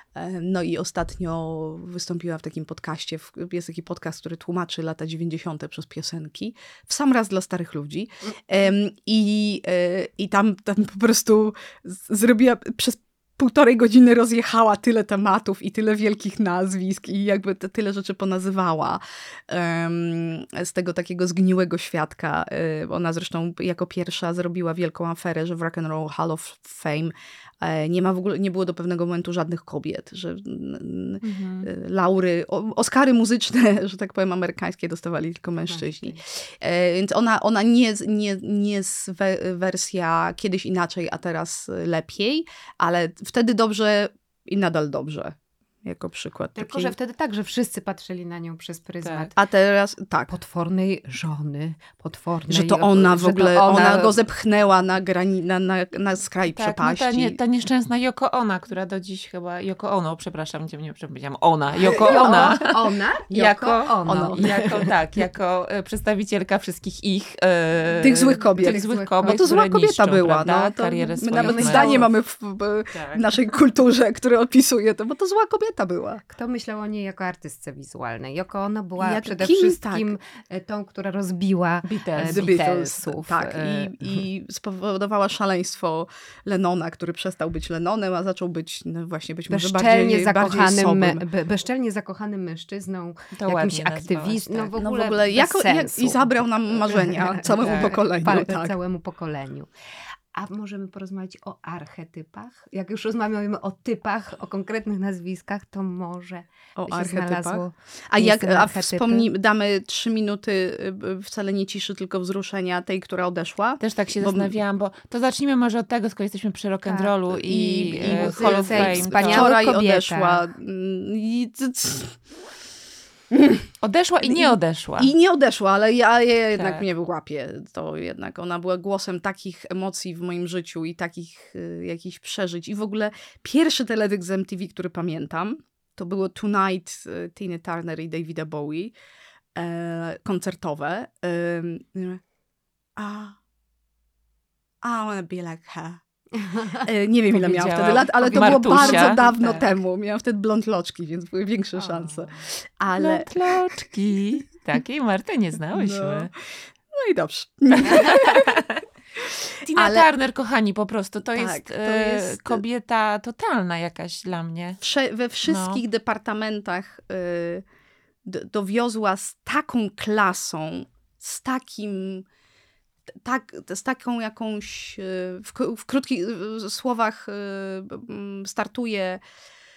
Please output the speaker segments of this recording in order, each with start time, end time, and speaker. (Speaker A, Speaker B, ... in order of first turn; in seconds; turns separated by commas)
Speaker A: 0.1-46.9, Speaker B: 31.2-31.7, Speaker C: 35.6-36.2, Speaker C: 46.5-49.3, Speaker B: 49.0-49.3, Speaker A: 49.4-50.3, Speaker C: 50.3-54.1, Speaker A: 52.5-57.4, Speaker B: 56.5-62.7, Speaker C: 61.9-64.9, Speaker A: 61.9-62.6, Speaker B: 63.3-72.1, Speaker A: 64.1-64.5, Speaker A: 68.0-76.2, Speaker C: 68.4-69.5, Speaker C: 71.4-72.1, Speaker B: 72.9-73.3, Speaker C: 76.3-84.2, Speaker A: 79.0-80.1, Speaker B: 81.8-82.6, Speaker A: 82.2-91.2, Speaker C: 89.5-99.7, Speaker B: 93.4-94.7, Speaker A: 94.8-98.8, Speaker B: 97.5-98.0, Speaker C: 100.3-109.3, Speaker A: 106.8-114.5, Speaker B: 113.8-119.5, Speaker C: 116.8-117.1, Speaker A: 117.3-122.2, Speaker C: 118.1-120.4, Speaker A: 123.3-123.6, Speaker B: 123.8-125.1, Speaker A: 124.2-138.9, Speaker B: 126.5-126.8, Speaker A: 139.5-142.2, Speaker A: 143.0-143.4, Speaker A: 144.8-146.0, Speaker C: 146.4-146.8, Speaker A: 146.7-153.6, Speaker B: 147.3-149.7, Speaker C: 148.2-149.4, Speaker C: 151.8-152.2, Speaker B: 152.9-156.3, Speaker A: 155.7-158.6, Speaker B: 157.8-158.8, Speaker B: 159.6-164.8, Speaker A: 159.7-160.1, Speaker A: 161.4-162.6, Speaker A: 164.8-167.6, Speaker B: 165.5-165.8, Speaker A: 168.2-172.2, Speaker A: 173.2-179.2